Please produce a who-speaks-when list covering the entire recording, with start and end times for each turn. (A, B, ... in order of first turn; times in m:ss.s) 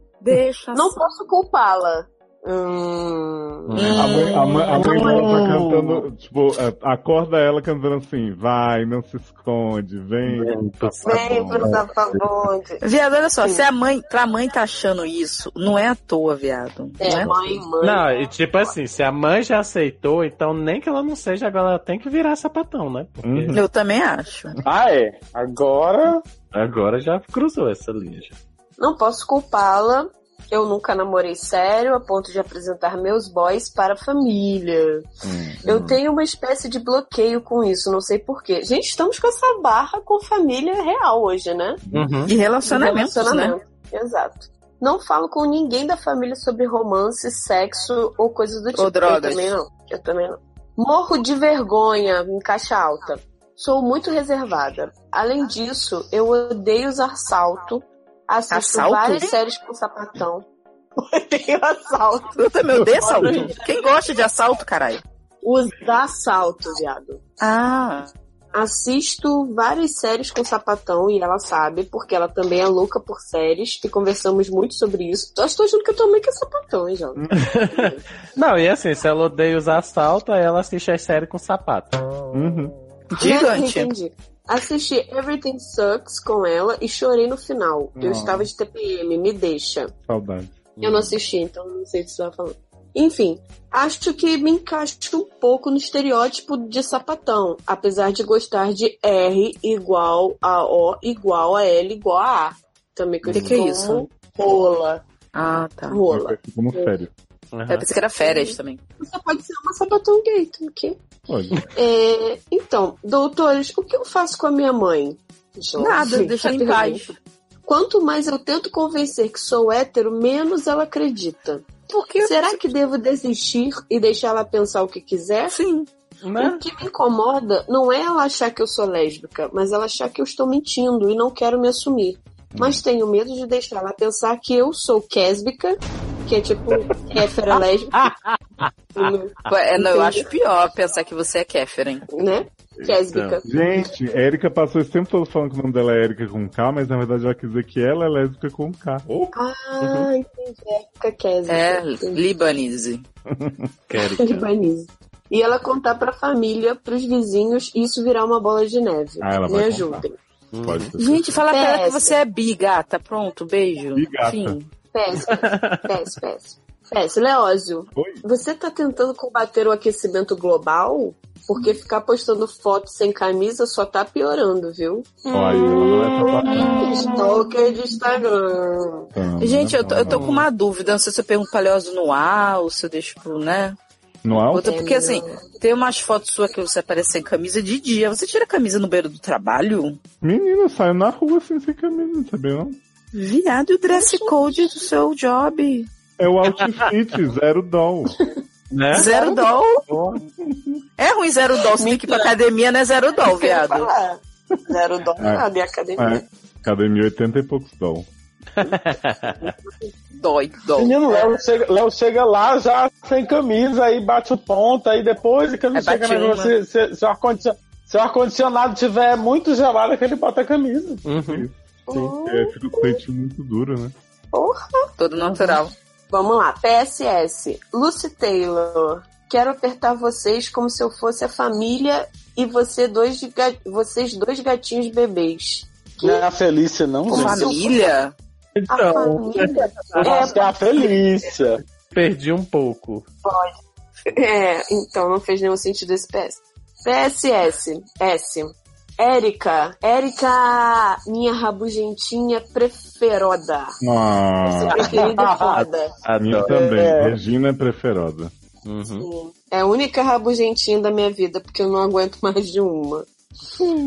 0:00.2-0:01.0 A
0:00.7-0:04.0 B
0:03.7-0:04.0 C
0:03.8-0:05.1 A
0:04.0-0:11.8 D
0:04.4-0:06.0 E
0:10.2-0:11.8 C
0:11.0-0:12.8 B
0:12.8-0:17.4 A
0:13.4-0:13.7 B
0:17.0-0:18.7 B
0:17.8-0:23.6 C
0:23.2-0:23.6 D
0:23.5-0:24.6 A
0:24.6-0:26.2 E
0:26.5-0:28.4 C
0:28.8-0:35.0 B
0:35.2-0:35.6 D
0:35.6-0:41.8 B
0:35.7-0:35.9 C
0:41.8-0:42.1 D
0:41.9-0:42.3 C
0:42.3-0:43.5 A
0:42.6-1:00.4 B
0:48.8-0:49.6 A
0:58.5-0:59.3 A
1:01.0-1:02.3 B
1:02.3-1:05.0 A
1:02.8-1:03.8 B
1:05.4-1:07.2 B
1:07.4-1:08.1 A
1:08.5-1:18.0 B
1:17.2-1:17.5 D
1:17.4-1:22.0 C
1:22.3-1:22.7 D
1:23.1-1:23.9 A
1:23.2-1:29.9 B
1:28.0-1:28.5 D
1:30.0-1:30.8 D
1:30.8-1:45.0 B
1:30.8-1:31.1 C
1:43.2-1:43.6 D
1:43.3-1:44.1 A
1:45.3-1:46.0 A
1:45.9-1:46.9 B
1:46.1-1:47.1 D
1:47.5-1:47.9 C
1:47.7-1:48.8 A
1:48.2-1:51.0 B
1:51.3-1:51.6 D
1:51.7-1:57.1 B
1:55.8-1:57.2 A
1:57.7-2:01.7 B
2:01.9-2:02.7 A
2:02.2-2:05.6 B
2:05.5-2:05.9 A
2:06.2-2:06.6 C
2:06.4-2:18.1 B
2:12.5-2:12.8 D
2:18.0-2:18.7 C
2:18.9-2:20.3 B
2:19.5-2:22.0 A
2:22.1-2:23.4 B
2:22.8-2:23.4 C
2:23.4-2:29.3 D
2:29.3-2:32.2 B
2:29.8-2:30.1 C
2:31.5-2:33.0 A
2:33.3-2:33.7 D
2:33.9-2:34.4 C
2:34.0-2:40.2 B
2:39.2-2:40.0 D
2:40.5-2:40.9 C
2:40.6-2:41.2 D
2:41.0-2:44.7 A
2:41.5-2:42.2 B
2:43.9-2:44.6 D
2:44.9-2:59.1 B
2:45.3-2:45.8 C
2:48.0-2:48.2 D
2:55.3-2:56.9 D
2:59.1-3:00.3 D
2:59.4-3:03.8 A
3:00.1-3:00.4 C
3:04.2-3:04.7 D
3:04.3-3:05.4 B
3:04.5-3:10.0 A
3:10.2-3:12.8 D
3:13.1-3:15.9 A
3:13.9-3:14.8 B
3:16.2-3:18.2 D
3:18.7-3:19.1 C
3:18.9-3:19.8 A
3:18.9-3:19.5 B
3:19.9-3:20.2 C
3:20.4-3:20.8 D
3:21.0-3:23.9 A
3:21.7-3:22.3 B
3:23.2-3:26.2 B
3:25.2-3:25.4 D
3:26.0-3:28.1 D
3:28.6-3:29.5 C
3:30.2-3:31.1 A
3:30.7-3:41.0 E
3:35.7-3:36.5 A
3:41.0-3:41.5 C
3:41.2-3:43.9 D
3:41.9-3:43.0 B
3:44.3-3:56.3 B
3:45.0-3:45.7 A
3:56.0-3:57.6 E
3:57.1-3:57.9 B
3:57.1-3:58.1 A
3:58.6-4:00.3 C
3:58.7-4:00.9 B
4:00.0-4:01.6 E
4:01.9-4:03.0 C
4:03.2-4:03.5 B
4:04.2-4:13.8 B
4:13.8-4:14.9 D
4:14.4-4:15.9 B
4:14.8-4:15.6 E
4:15.6-4:16.5 C
4:16.2-4:18.3 D
4:16.3-4:17.2 E
4:18.6-4:19.1 C
4:19.0-4:23.0 B